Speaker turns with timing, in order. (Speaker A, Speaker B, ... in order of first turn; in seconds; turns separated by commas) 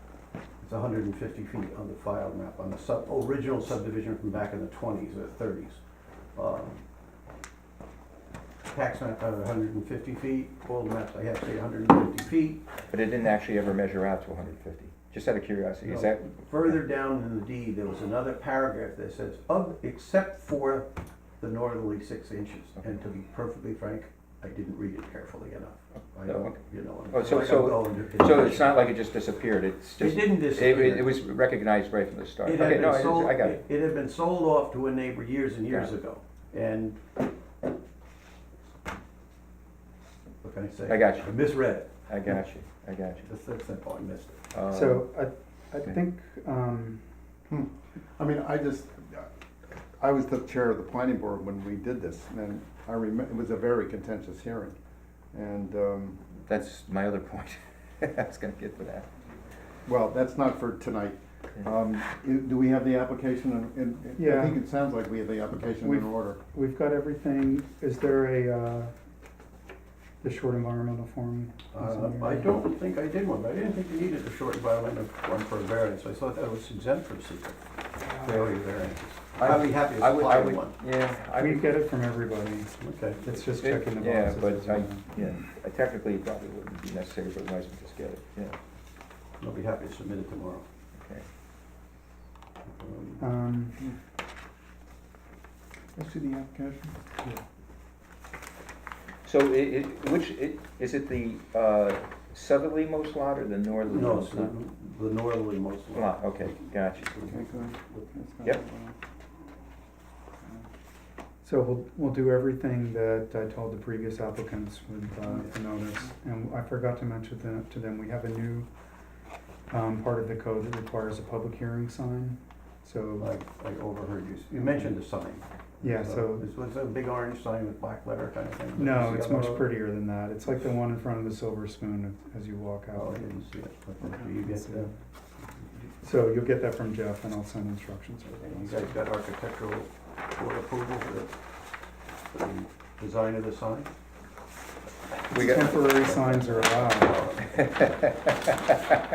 Speaker A: 0.6-5.8, Speaker A: 6.3-6.8, Speaker A: 8.7-12.6, Speaker B: 12.9-16.8, Speaker A: 15.8-20.9, Speaker A: 21.4-28.9, Speaker B: 26.2-33.6, Speaker A: 30.0-31.1, Speaker A: 32.4-37.0, Speaker A: 40.4-41.9, Speaker B: 40.9-41.4, Speaker B: 41.9-43.2, Speaker A: 43.2-44.4, Speaker B: 44.5-45.1, Speaker C: 44.7-47.3, Speaker D: 47.5-49.3, Speaker D: 50.0-54.7, Speaker D: 55.3-56.2, Speaker B: 56.5-59.0, Speaker D: 59.9-66.4, Speaker C: 64.2-64.6, Speaker C: 65.8-68.9, Speaker C: 70.2-72.5, Speaker A: 71.7-77.6, Speaker A: 78.1-80.8, Speaker B: 79.4-81.8, Speaker C: 81.4-85.1, Speaker A: 82.8-83.2, Speaker B: 83.5-88.5, Speaker A: 89.4-90.7, Speaker B: 91.0-91.2, Speaker A: 92.7-93.2, Speaker C: 93.2-93.8, Speaker C: 96.2-97.4, Speaker B: 99.2-104.5, Speaker A: 103.9-107.8, Speaker B: 105.9-107.1, Speaker D: 107.2-108.9, Speaker C: 111.4-118.7, Speaker C: 119.7-123.3, Speaker A: 123.2-129.7, Speaker C: 124.5-124.9, Speaker C: 125.8-126.5, Speaker C: 128.8-133.2, Speaker A: 132.9-134.9, Speaker C: 134.2-134.9, Speaker C: 136.0-139.0, Speaker A: 138.5-141.3, Speaker A: 142.3-143.9, Speaker B: 145.3-146.0, Speaker C: 145.3-147.2, Speaker A: 145.5-147.9, Speaker B: 147.5-148.2